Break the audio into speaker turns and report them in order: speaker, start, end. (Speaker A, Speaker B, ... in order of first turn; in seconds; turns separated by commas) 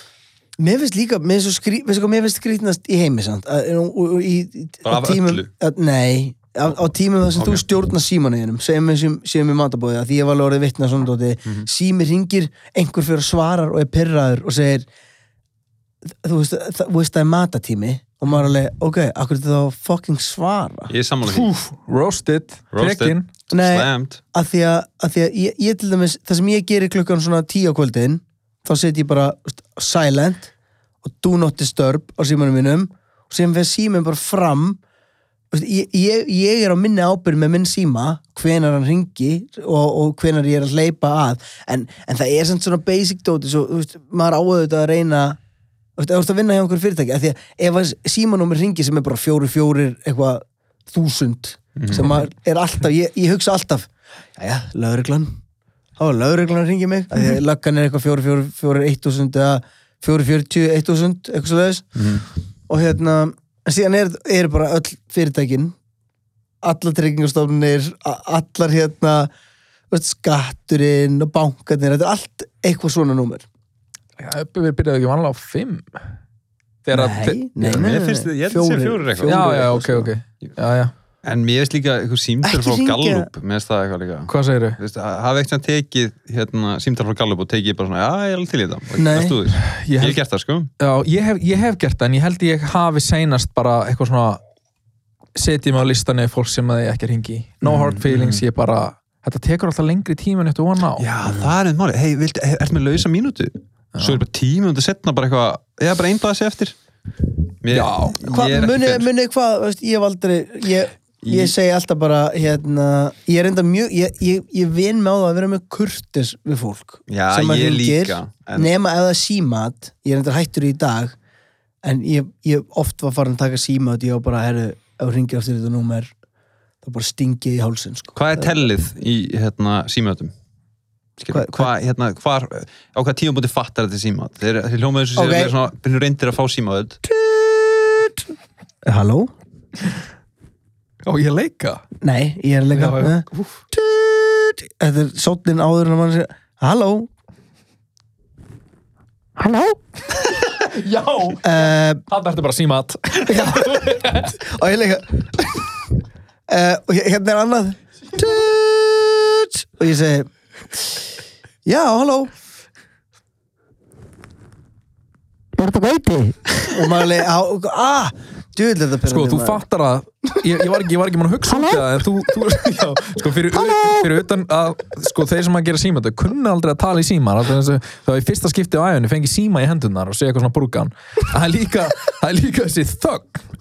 Speaker A: 0.6-14.8, Speaker B: 4.8-5.5, Speaker B: 7.4-7.6, Speaker A: 16.1-20.9, Speaker B: 20.9-21.5, Speaker C: 21.2-23.3, Speaker B: 22.7-24.2, Speaker A: 23.5-30.5, Speaker A: 31.0-34.8, Speaker A: 35.5-45.4, Speaker A: 46.0-55.4, Speaker B: 51.8-52.1, Speaker A: 56.0-62.0, Speaker B: 62.0-62.2, Speaker A: 62.7-65.8, Speaker A: 66.6-69.3, Speaker A: 69.9-73.5, Speaker C: 74.2-76.1, Speaker C: 76.8-77.5, Speaker A: 76.9-80.1, Speaker B: 77.6-79.5, Speaker C: 79.3-80.9, Speaker B: 81.2-90.7, Speaker A: 82.4-83.3, Speaker C: 84.3-84.8, Speaker A: 89.0-89.4, Speaker C: 89.5-90.2, Speaker C: 90.8-94.4, Speaker C: 95.4-101.1, Speaker B: 97.6-98.4, Speaker B: 101.0-106.8, Speaker C: 104.0-104.2, Speaker B: 107.6-109.1, Speaker C: 107.7-108.2, Speaker A: 108.2-121.2, Speaker B: 111.2-111.5, Speaker B: 117.1-118.7, Speaker A: 121.8-126.1, Speaker A: 126.8-128.6, Speaker B: 128.1-130.3, Speaker B: 131.2-137.0, Speaker A: 131.3-131.7, Speaker A: 135.2-135.6, Speaker A: 137.1-138.2, Speaker A: 138.8-139.3, Speaker C: 141.1-141.8, Speaker A: 142.0-147.1, Speaker C: 142.8-143.6, Speaker C: 150.4-154.3, Speaker A: 151.4-152.0, Speaker A: 153.3-155.9, Speaker A: 156.5-161.0, Speaker A: 161.6-162.3, Speaker A: 166.7-169.6, Speaker C: 169.1-183.4